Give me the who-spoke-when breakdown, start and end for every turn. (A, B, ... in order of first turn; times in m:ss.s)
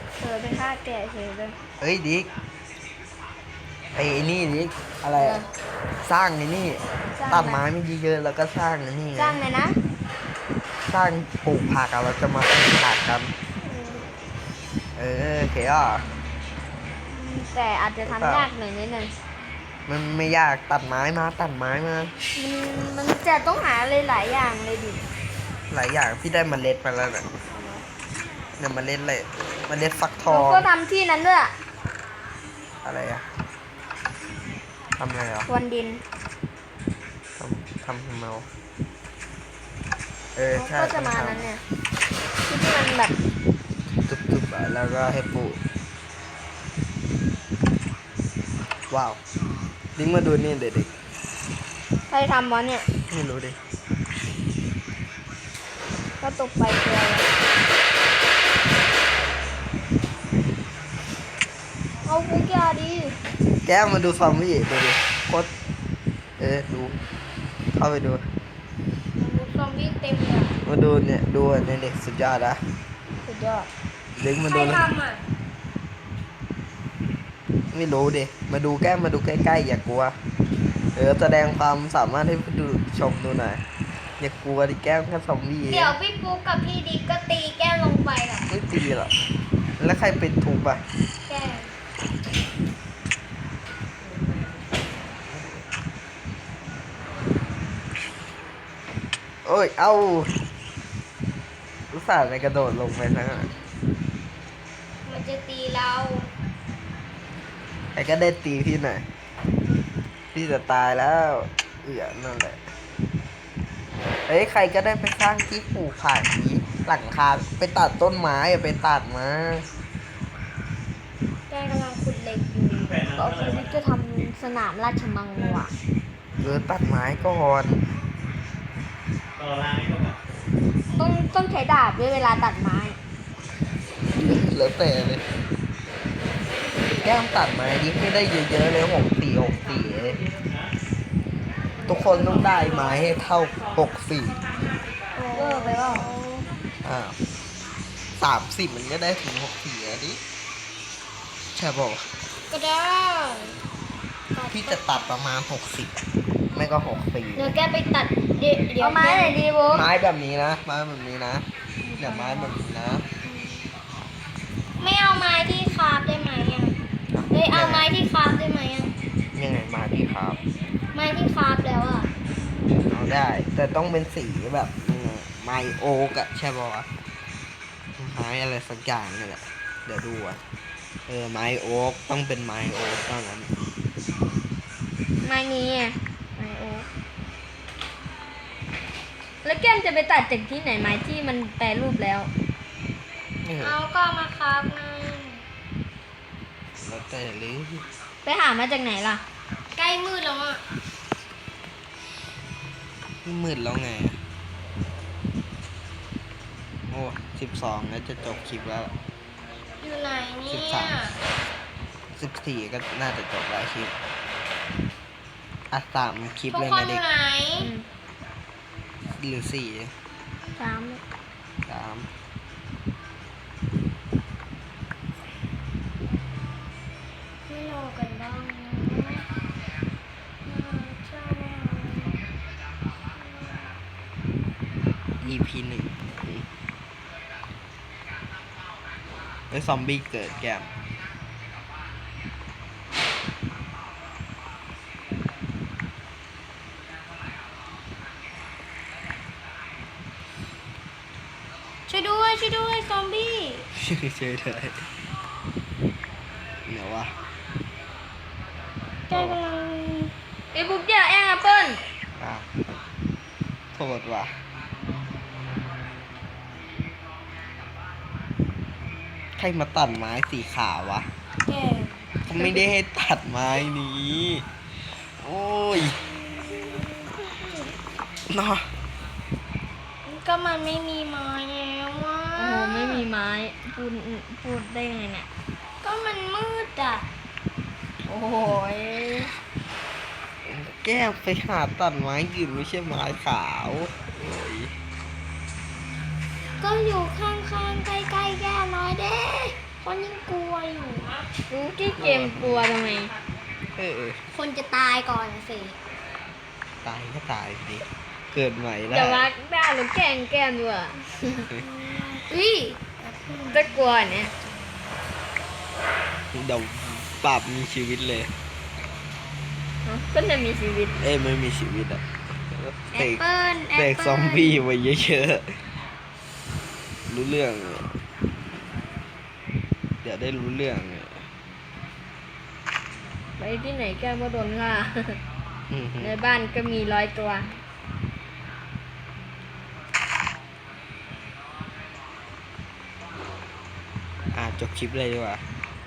0:00.2-0:01.6 A
0:01.8-0:02.3 B
0:03.9-0:05.4 B
0:05.2-0:05.5 A
0:06.0-0:09.4 B
0:07.1-0:07.6 A
0:09.2-0:09.8 A
0:10.9-0:13.3 B
0:13.6-0:14.0 A
0:15.0-0:16.0 B
0:17.1-0:19.1 A
0:18.0-0:18.5 B
0:19.9-0:22.1 B
0:22.3-0:25.0 A
0:25.7-0:27.3 B
0:27.5-0:27.8 A
0:28.6-0:30.6 B
0:30.3-0:31.5 A
0:32.8-0:33.3 B
0:35.0-0:35.5 B
0:35.5-0:36.0 A
0:37.4-0:38.5 B
0:40.3-0:41.5 B
0:40.5-0:41.6 A
0:42.5-0:43.1 A
0:44.0-0:45.6 B
0:48.9-0:49.2 B
0:50.0-0:50.9 B
0:52.1-0:52.9 A
0:53.1-0:53.6 B
0:56.2-0:57.3 A
1:02.0-1:03.2 A
1:03.6-1:05.5 B
1:06.4-1:07.0 B
1:07.7-1:08.2 B
1:09.2-1:10.6 C
1:10.6-1:12.6 B
1:13.2-1:13.7 A
1:14.2-1:14.8 B
1:14.4-1:15.2 C
1:17.7-1:20.2 B
1:20.9-1:23.6 B
1:24.2-1:26.0 B
1:25.7-1:28.5 C
1:28.5-1:29.1 B
1:29.8-1:30.8 B
1:31.2-1:31.7 C
1:39.4-1:40.4 B
1:41.9-1:43.5 B
1:45.0-1:46.3 C
1:47.9-1:49.0 B
1:50.3-1:52.6 B
1:54.3-1:59.6 B
2:01.5-2:03.1 C
2:03.1-2:05.7 A
2:06.4-2:07.8 B
2:11.0-2:13.0 A
2:14.1-2:15.2 B
2:17.0-2:20.2 B
2:21.9-2:24.4 B
2:25.1-2:26.4 C
2:25.3-2:26.1 A
2:26.8-2:27.2 B
2:28.2-2:30.2 B
2:31.5-2:32.1 B
2:32.5-2:33.6 C
2:34.3-2:35.1 C
2:34.5-2:36.0 B
2:36.5-2:37.5 B
2:37.3-2:39.4 C
2:38.8-2:39.9 A
2:39.7-2:41.4 B
2:41.8-2:42.5 C
2:42.0-2:43.0 B
2:43.2-2:43.6 C
2:44.8-2:46.8 C
2:47.1-2:47.9 B
2:47.3-2:48.9 C
2:49.4-2:50.4 B
2:50.9-2:52.1 C
2:52.8-2:56.9 B
2:58.0-3:00.4 B
3:01.1-3:03.5 B
3:05.2-3:06.9 A
3:09.4-3:12.3 A
3:13.4-3:13.8 B
3:13.6-3:15.4 C
3:16.8-3:17.8 B
3:18.2-3:19.2 A
3:19.7-3:20.6 C
3:23.2-3:24.2 B
3:26.9-3:28.9 B
3:29.8-3:31.2 C
3:30.5-3:31.0 B
3:32.2-3:33.9 B
3:35.7-3:37.0 B
3:36.5-3:37.7 C
3:37.6-3:37.9 A
3:39.1-3:39.9 B
3:40.6-3:41.0 A
3:41.7-3:42.1 B
3:47.5-3:49.3 C
3:50.4-3:52.2 C
3:53.1-3:53.8 C
3:55.2-3:56.4 B
3:59.5-4:00.7 B
4:11.9-4:13.6 C
4:13.7-4:14.8 B
4:16.6-4:17.1 B
4:19.1-4:20.1 C
4:19.1-4:19.4 B
4:20.5-4:21.8 A
4:22.2-4:22.5 B
4:23.7-4:24.3 B
4:29.4-4:31.1 B
4:31.4-4:32.6 C
4:32.3-4:34.4 B
4:35.2-4:36.0 B
4:36.4-4:37.7 C
4:38.3-4:38.7 B
4:40.0-4:43.1 C
4:42.4-4:45.3 A
4:45.8-4:47.1 C
4:48.0-4:49.3 A
4:50.4-4:54.7 B
4:56.6-5:01.1 C
5:01.5-5:03.1 A
5:02.0-5:02.7 B
5:03.8-5:04.2 B
5:04.3-5:05.8 C
5:06.8-5:09.3 B
5:08.9-5:11.5 A
5:11.6-5:15.0 C
5:13.5-5:14.3 A
5:16.3-5:18.3 B
5:19.8-5:21.0 A
5:21.0-5:23.2 B
5:22.9-5:24.6 C
5:23.7-5:25.6 B
5:27.1-5:28.0 B
5:30.0-5:31.2 B
5:33.4-5:35.2 A
5:35.7-5:36.1 B
5:36.0-5:37.6 A
5:44.3-5:45.4 B